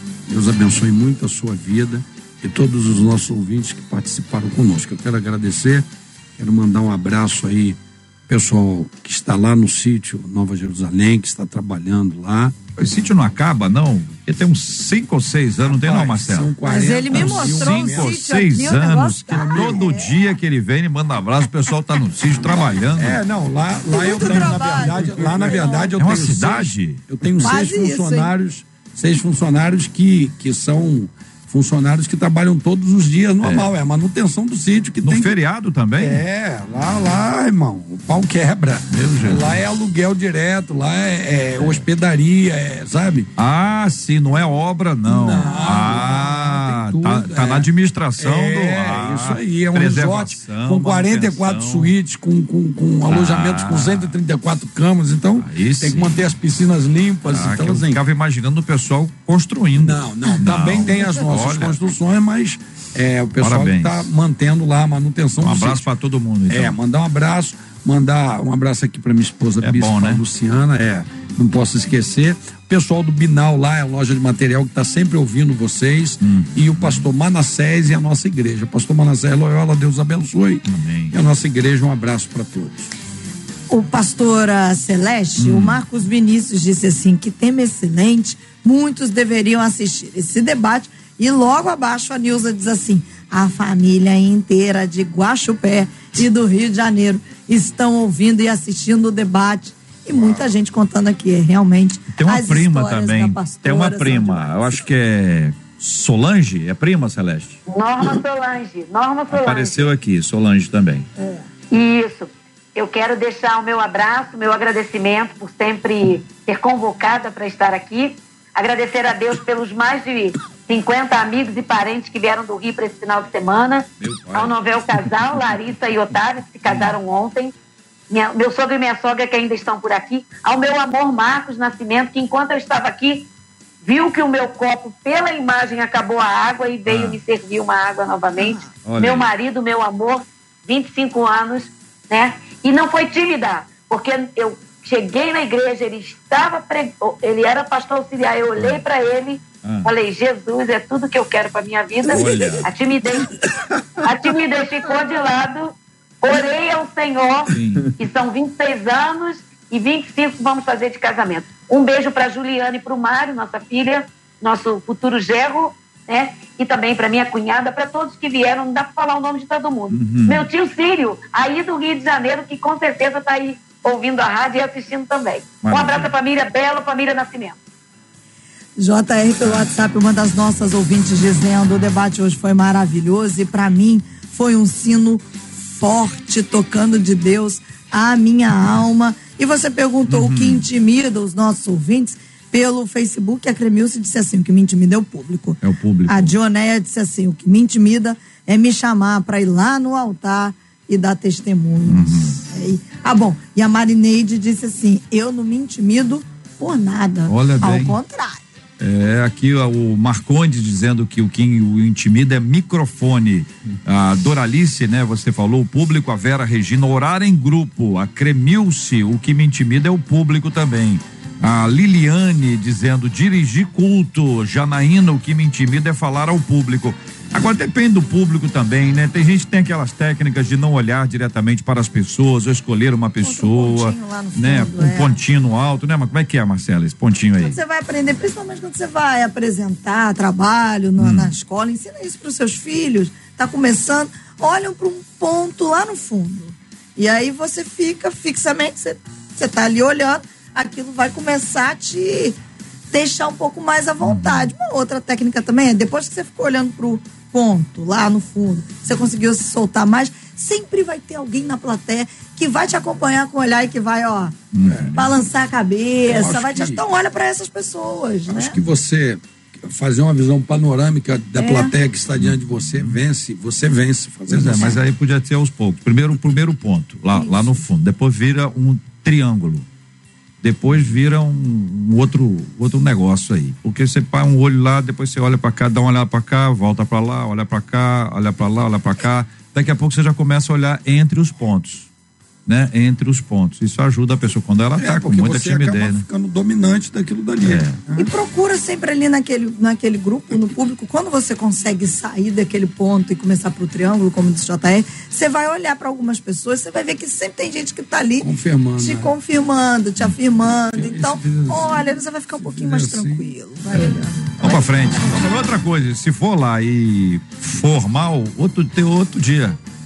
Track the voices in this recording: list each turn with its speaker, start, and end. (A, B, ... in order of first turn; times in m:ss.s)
0:00.3-0:05.8 A
0:06.4-0:12.6 A
0:12.8-0:16.5 B
0:15.6-0:18.3 A
0:16.6-0:20.1 C
0:17.1-0:23.2 B
0:19.3-0:20.0 A
0:22.6-0:35.4 A
0:23.9-0:25.9 C
0:26.0-0:27.0 B
0:27.4-0:28.3 C
0:33.4-0:33.7 B
0:35.0-0:36.2 B
0:36.0-0:43.3 A
0:38.9-0:39.6 B
0:41.6-0:41.8 B
0:43.4-0:51.9 B
0:45.0-0:58.0 A
0:53.1-0:54.1 B
0:55.4-0:56.3 B
0:57.3-1:01.8 B
0:59.7-1:05.9 A
1:03.4-1:04.1 B
1:05.4-1:06.8 B
1:06.5-1:22.9 A
1:09.6-1:10.2 B
1:16.2-1:17.1 B
1:20.6-1:21.1 B
1:23.7-1:44.8 C
1:25.4-1:25.8 B
1:40.1-1:40.4 B
1:42.1-1:47.6 B
1:47.7-1:49.9 D
1:49.3-1:51.1 B
1:51.7-2:07.5 D
2:04.0-2:04.5 B
2:06.6-2:07.0 B
2:08.1-2:13.3 D
2:13.8-2:33.4 D
2:16.8-2:17.2 B
2:18.8-2:19.3 B
2:29.6-2:29.9 B
2:32.1-2:32.7 B
2:34.0-2:57.6 D
2:37.5-2:38.0 B
2:49.9-2:50.5 B
2:55.6-2:56.1 B
2:58.8-3:28.4 C
3:10.1-3:10.7 B
3:15.6-3:16.3 B
3:21.8-3:22.4 B
3:27.3-3:28.0 B
3:28.8-3:57.6 B
3:53.2-3:55.2 C
3:57.4-4:12.4 C
4:01.0-4:01.3 B
4:12.9-4:24.4 C
4:14.0-4:14.5 B
4:24.5-4:25.2 B
4:24.6-4:25.0 A
4:24.9-4:28.5 C
4:26.0-4:26.8 A
4:28.3-4:34.8 A
4:31.4-4:31.7 C
4:32.2-4:33.0 B
4:34.3-4:39.7 B
4:37.2-4:37.5 C
4:40.4-4:51.9 B
4:52.4-4:56.0 B
4:54.8-4:58.1 A
4:57.4-4:57.8 B
4:58.0-5:14.9 C
5:08.2-5:09.1 A
5:10.7-5:13.3 A
5:14.4-5:19.6 B